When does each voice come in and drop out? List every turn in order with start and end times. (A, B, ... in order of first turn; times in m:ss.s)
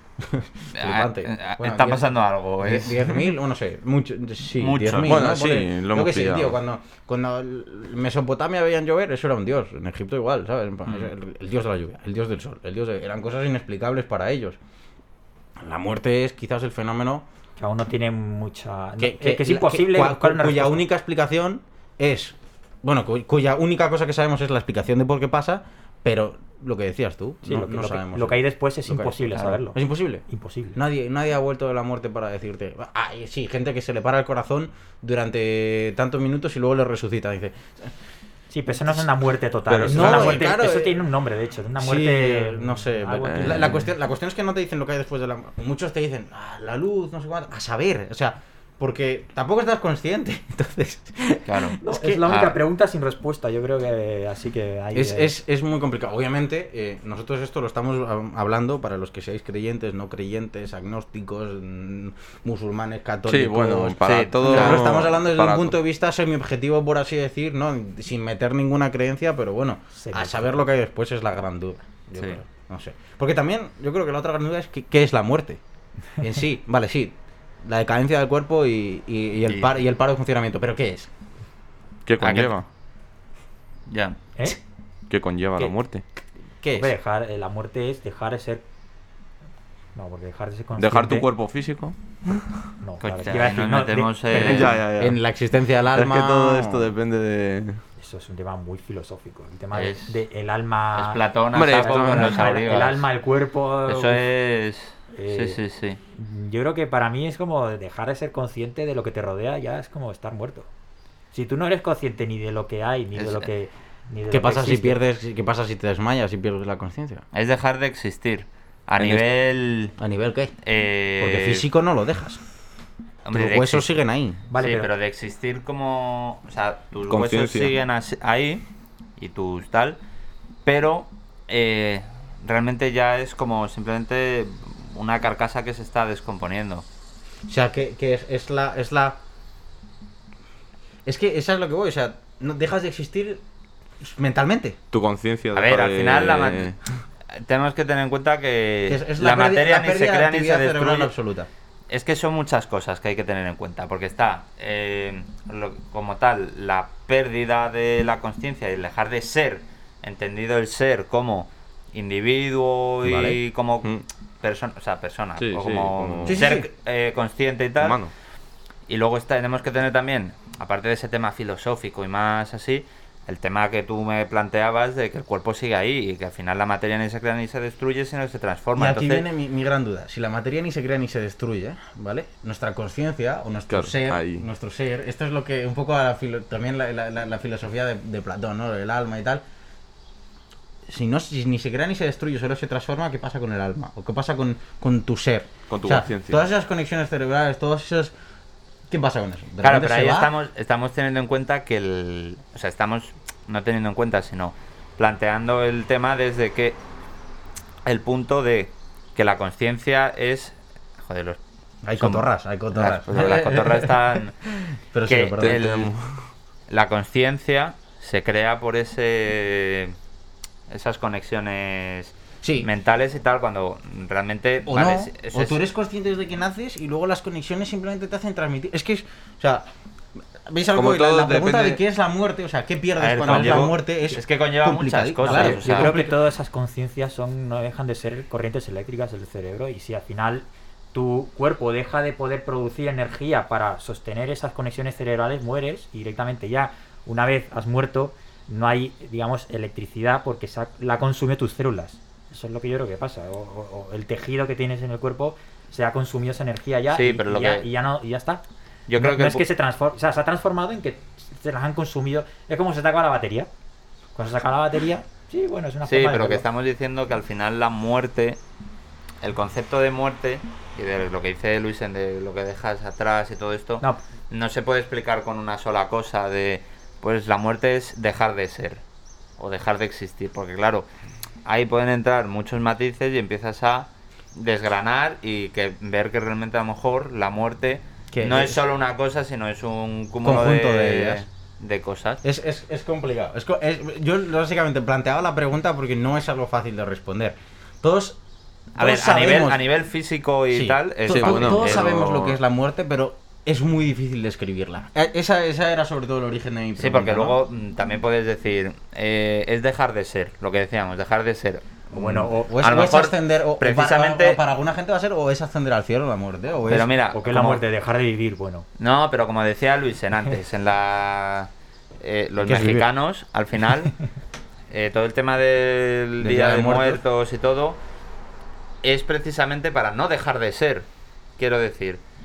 0:00.2-0:02.1 A
0:00.7-0:03.3 B
0:02.6-0:14.6 A
0:04.6-0:05.2 B
0:05.0-0:06.6 C
0:15.6-0:17.2 A
0:17.6-0:20.8 D
0:19.0-0:37.9 A
0:27.4-0:30.8 D
0:38.5-0:43.9 D
0:39.7-0:40.4 C
0:39.9-0:41.0 A
0:41.8-0:52.3 A
0:43.2-0:43.8 C
0:51.5-0:51.8 B
0:51.8-0:55.3 D
0:52.3-0:52.6 B
0:54.9-1:15.6 A
1:03.3-1:05.8 C
1:04.0-1:04.9 B
1:10.0-1:10.6 D
1:16.2-1:21.1 A
1:22.1-1:22.6 C
1:22.2-1:22.6 B
1:23.9-1:24.6 B
1:25.1-1:26.0 C
1:26.6-1:26.9 A
1:26.8-1:28.6 D
1:30.0-1:31.3 D
1:30.8-1:32.7 C
1:32.8-1:34.8 D
1:33.0-1:34.8 B
1:34.4-1:35.2 C
1:35.0-1:36.9 A
1:35.9-1:37.8 C
1:38.0-1:41.2 D
1:39.7-1:40.2 B
1:41.0-1:43.1 B
1:41.5-1:42.5 C
1:41.7-1:44.3 D
1:43.9-1:46.0 B
1:45.1-1:45.6 D
1:46.1-1:50.7 D
1:51.3-1:55.0 D
1:53.2-1:53.5 B
1:54.3-1:57.2 A
1:57.3-2:00.0 B
1:59.0-1:59.2 A
2:00.0-2:00.6 A
2:00.6-2:01.6 B
2:01.2-2:02.4 A
2:03.2-2:04.0 B
2:03.3-2:04.4 A
2:04.5-2:04.9 D
2:04.6-2:08.6 B
2:07.1-2:07.7 C
2:09.2-2:10.0 B
2:10.6-2:16.8 B
2:17.5-2:19.2 A
2:21.1-2:23.4 A
2:24.0-2:24.8 A
2:24.9-2:27.0 C
2:25.5-2:26.8 B
2:27.4-2:31.1 B
2:28.9-2:31.5 A
2:31.9-2:48.0 B
2:43.0-2:43.4 A
2:45.4-2:46.4 C
2:46.2-2:46.7 A
2:47.8-2:48.1 C
2:48.9-2:59.2 B
2:58.8-3:09.4 A
3:03.7-3:04.5 C
3:10.9-3:18.1 A
3:15.7-3:16.4 C
3:18.9-3:20.3 A
3:19.6-3:26.8 B
3:27.8-3:31.4 B
3:31.8-3:34.2 A
3:32.0-3:34.4 B
3:33.1-3:33.4 C
3:34.9-3:35.6 A
3:35.1-3:35.9 B
3:35.4-3:36.3 C
3:36.7-3:40.0 B
3:40.7-3:45.6 B
3:42.4-3:42.7 A
3:44.7-3:49.7 A
3:50.4-3:56.1 A
3:50.8-3:51.8 C
3:53.0-3:56.1 B
3:53.3-3:53.6 D
3:55.2-4:18.4 D
4:16.9-4:17.7 B
4:18.9-4:19.4 B
4:19.0-4:23.5 D
4:24.2-4:26.4 D
4:25.9-4:28.4 B
4:29.2-4:38.8 B
4:39.4-4:40.9 B
4:41.4-4:52.2 B
4:48.1-4:48.6 A
4:50.2-4:51.3 A
4:52.2-4:58.2 A
4:58.8-4:59.6 A
4:58.8-5:02.4 B
5:00.5-5:07.4 A
5:01.1-5:02.2 C
5:06.8-5:14.4 B
5:11.9-5:16.9 A
5:12.0-5:12.3 D
5:16.7-5:17.6 B
5:17.1-5:18.7 D
5:18.8-5:24.0 B
5:22.4-5:22.9 A
5:24.7-5:27.8 B
5:26.2-5:27.0 A
5:28.8-5:30.9 B
5:31.4-5:32.0 B